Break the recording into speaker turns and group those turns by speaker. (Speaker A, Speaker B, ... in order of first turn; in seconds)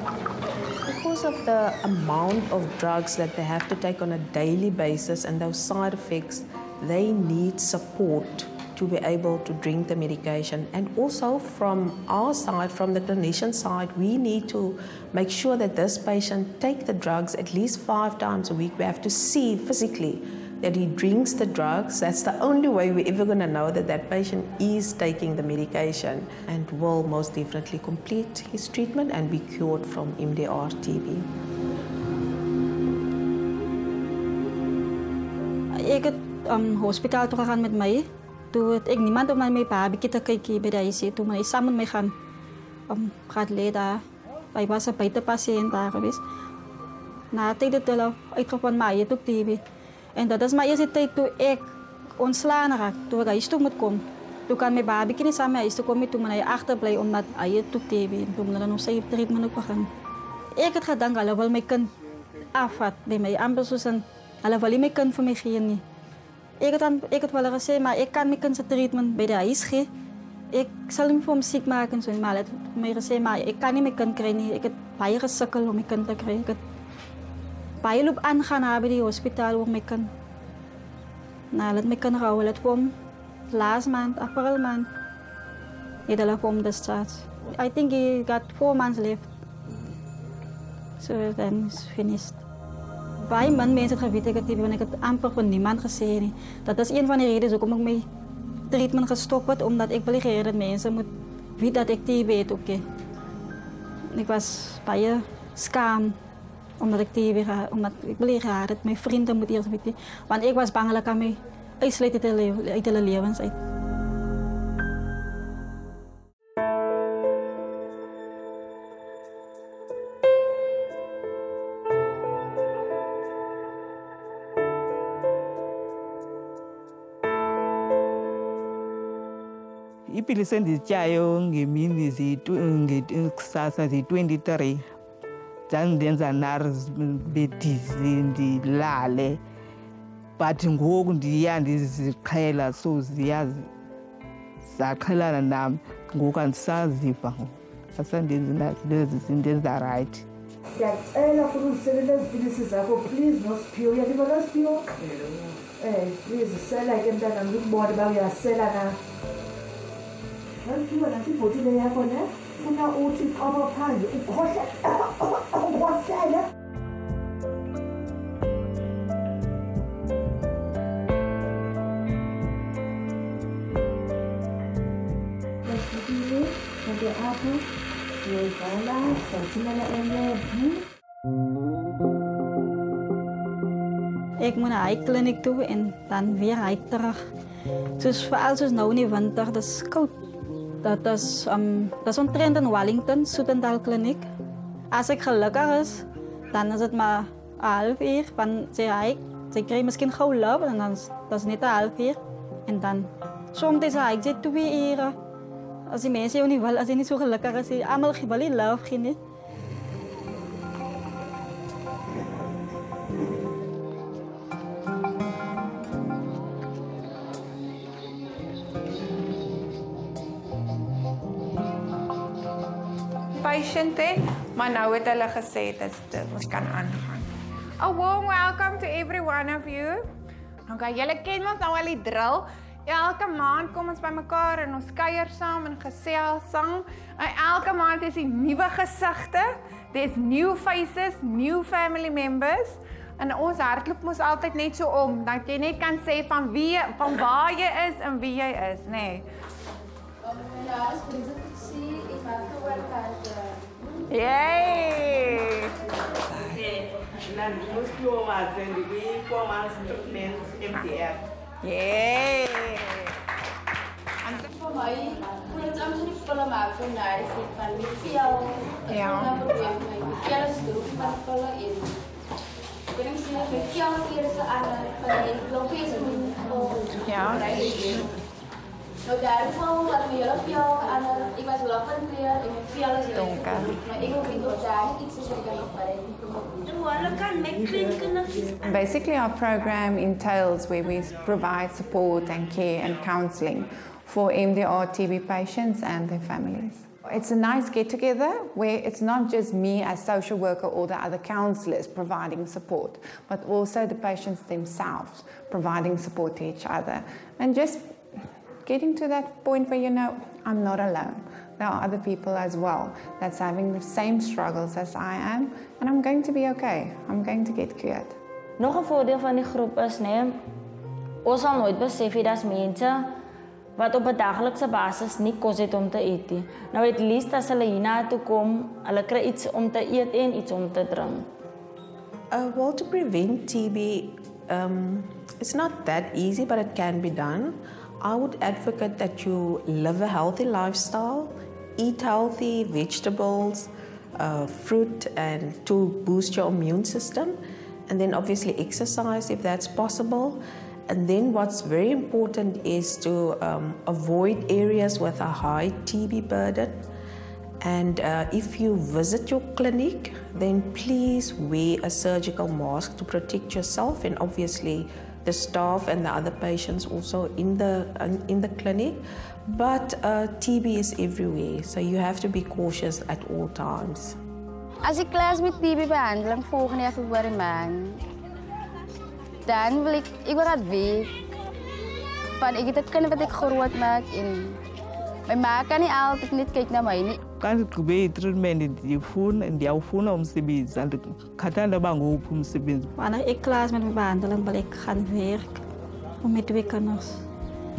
Speaker A: 0.8-31.3, 332.3-356.9, 357.6-374.2
Speaker B: 35.7-42.1, 42.9-44.0, 44.5-46.2, 47.3-49.6, 50.2-51.7, 52.2-59.9, 60.6-61.9, 62.5-65.8, 66.6-69.9, 70.5-76.6, 77.8-80.1, 81.5-82.9, 83.5-84.9, 86.1-89.3, 91.0-92.4, 93.2-98.0, 98.7-102.8, 104.1-106.2, 106.8-113.6, 184.4-187.2, 188.0-190.2, 190.8-194.3, 194.9-205.2, 205.9-209.2, 393.0-395.6, 396.2-397.2
Speaker C: 130.1-134.8, 135.7-139.4, 140.4-143.7, 144.6-150.2, 387.4-392.9
Speaker D: 150.8-159.0, 160.6-166.5, 175.6-177.6, 178.2-180.8, 257.7-258.0
Speaker E: 223.4-227.3, 227.8-230.1, 230.7-249.2, 254.1-255.7, 261.6-263.0, 268.9-269.4, 277.1-277.6, 283.1-283.8, 288.6-308.0, 308.6-318.2
Speaker F: 250.2-253.7, 264.4-272.0, 272.9-278.1, 279.1-288.4, 374.8-378.0, 379.4-381.1, 382.4-384.6, 385.3-387.2
Speaker G: 318.6-320.4, 321.2-323.1, 323.8-331.3